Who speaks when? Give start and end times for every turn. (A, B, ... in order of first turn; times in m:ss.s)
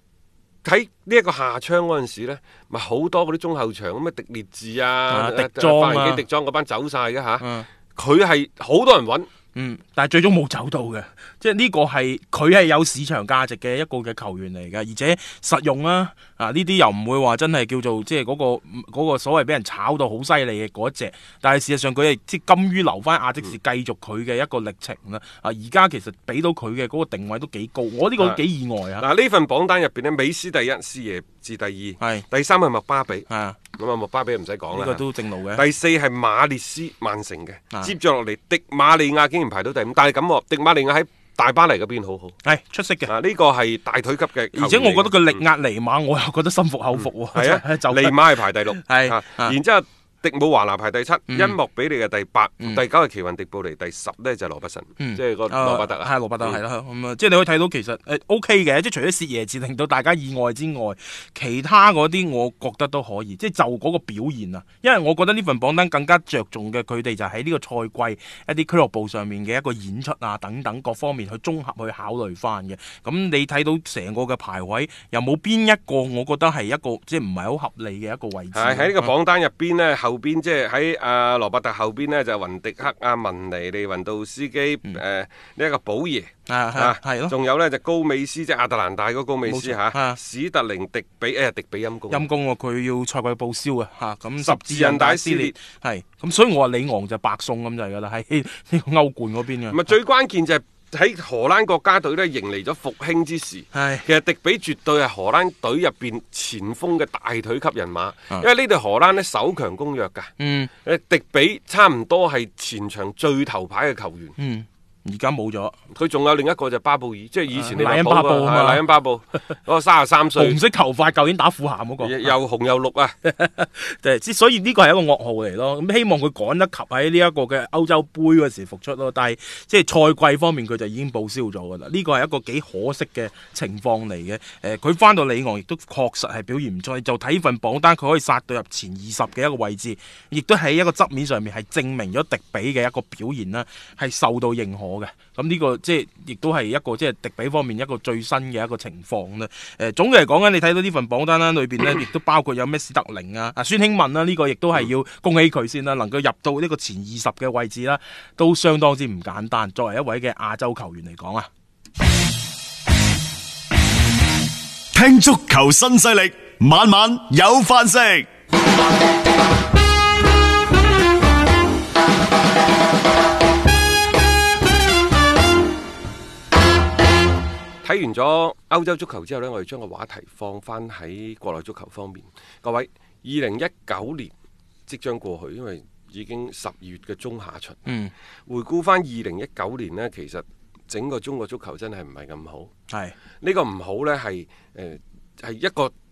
0:00.6-0:09.3 A
0:05.1-0:06.2 B
0:07.4-0:07.7 B
0:09.5-0:29.0 B
0:29.0-0:42.4 A
0:33.3-0:33.6 B
0:34.7-0:35.6 B
0:42.4-0:43.1 B
0:43.1-0:45.4 A
0:44.5-0:49.6 B
0:47.0-0:56.6 A
0:51.3-0:51.6 B
0:55.0-1:19.1 B
1:18.5-1:32.3 A
1:26.5-1:27.4 B
1:29.5-1:30.2 B
1:32.1-1:39.9 B
1:34.4-1:35.6 A
1:39.7-1:54.4 A
1:43.7-1:44.1 B
1:50.4-1:50.7 B
1:54.4-1:55.8 B
1:55.9-2:00.6 A
1:57.5-1:58.8 B
2:00.4-2:02.3 B
2:02.0-2:03.2 A
2:03.2-2:41.5 B
2:44.9-2:48.3 C
2:57.8-3:04.3 A
3:04.9-3:07.9 A
3:07.9-3:08.1 B
3:08.5-3:12.7 A
3:12.9-3:13.2 B
3:13.4-3:15.9 A